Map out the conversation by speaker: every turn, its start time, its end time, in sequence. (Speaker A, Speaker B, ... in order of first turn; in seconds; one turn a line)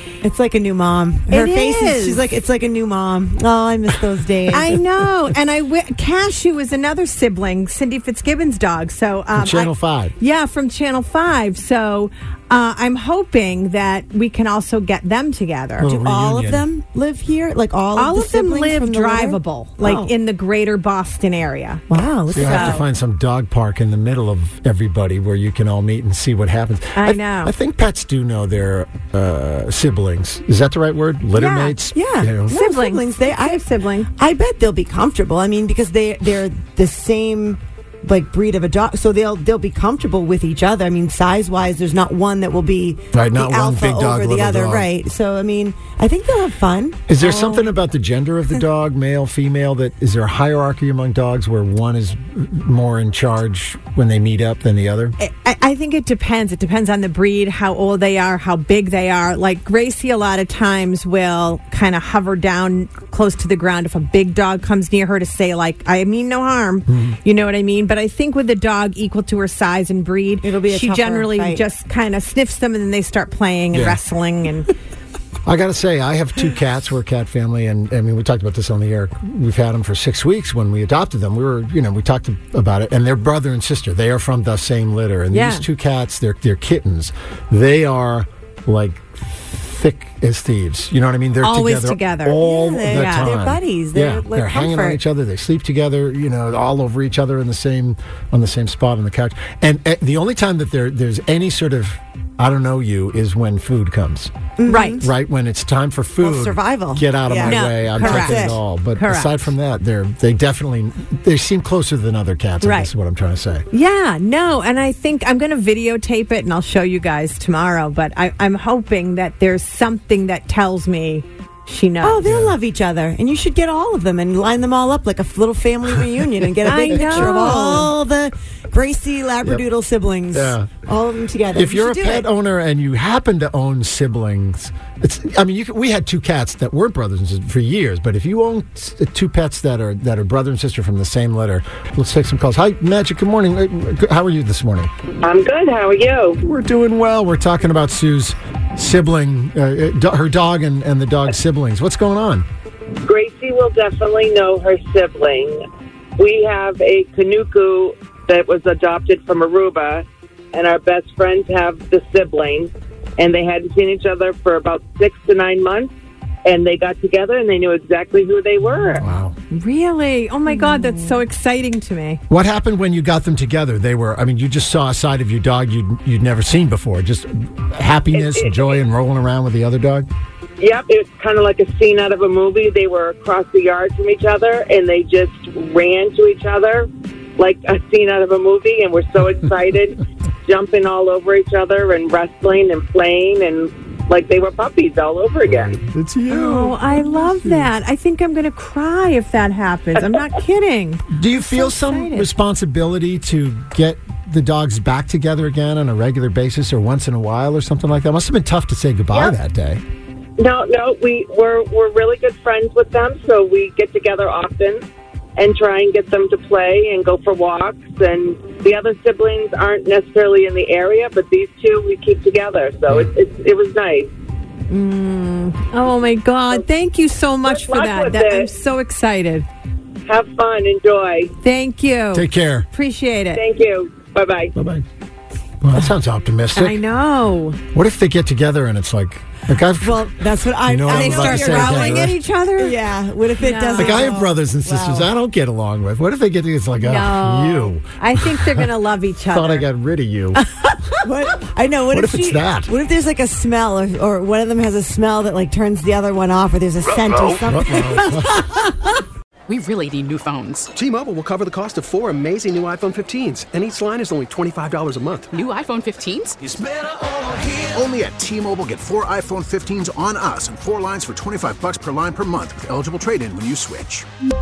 Speaker A: 0.2-4.8
Speaker B: 1.3-2.2
Speaker B: 4.5-15.9
Speaker C: 9.3-10.1
Speaker C: 15.8-16.7
Speaker A: 15.8-20.1
Speaker B: 17.9-21.8
Speaker A: 21.9-22.9
Speaker C: 22.3-32.6
Speaker B: 22.3-22.8
Speaker B: 26.9-27.5
Speaker B: 31.3-31.8
Speaker A: 31.9-47.6
Speaker B: 32.5-34.1
Speaker C: 43.1-44.9
Speaker C: 47.1-55.1
Speaker B: 55.2-74.7
Speaker C: 66.9-67.2
Speaker A: 70.4-71.6
Speaker C: 73.7-74.0
Speaker C: 75.4-113.7
Speaker B: 85.3-85.7
Speaker B: 91.4-93.3
Speaker A: 92.4-95.0
Speaker A: 104.6-105.1
Speaker B: 104.7-105.0
Speaker A: 106.2-108.6
Speaker B: 107.5-109.5
Speaker B: 112.6-112.9
Speaker B: 113.7-122.2
Speaker A: 122.0-132.3
Speaker C: 122.2-122.6
Speaker B: 126.6-127.9
Speaker C: 126.9-127.9
Speaker C: 130.3-130.8
Speaker C: 131.5-144.9
Speaker D: 145.2-146.4
Speaker C: 146.4-152.4
Speaker D: 153.0-155.6
Speaker D: 156.2-165.9
Speaker D: 166.4-169.1
Speaker C: 169.0-169.3
Speaker B: 169.5-172.2
Speaker C: 172.3-180.1
Speaker D: 178.1-178.8
Speaker D: 180.6-195.7
Speaker C: 195.4-197.7
Speaker B: 196.3-202.3
Speaker C: 201.1-209.8
Speaker D: 210.4-214.8
Speaker D: 215.4-224.1
Speaker B: 224.7-229.4
Speaker D: 227.4-228.5
Speaker D: 230.1-231.3
Speaker B: 231.4-233.4
Speaker C: 232.1-232.7
Speaker D: 233.3-234.5
Speaker C: 234.5-234.8
Speaker C: 235.6-236.8
Speaker B: 236.6-237.6
Speaker C: 237.7-242.2
Speaker A: 239.8-245.1
Speaker B: 240.9-242.8
Speaker B: 243.4-244.1
Speaker C: 243.8-248.7
Speaker B: 246.8-249.7
Speaker C: 249.3-250.4
Speaker A: 250.4-258.8
Speaker C: 251.9-252.7
Speaker C: 257.4-258.5
Speaker E: 259.5-260.7
Speaker F: 260.7-265.3
Speaker E: 265.3-266.3
Speaker G: 266.4-274.1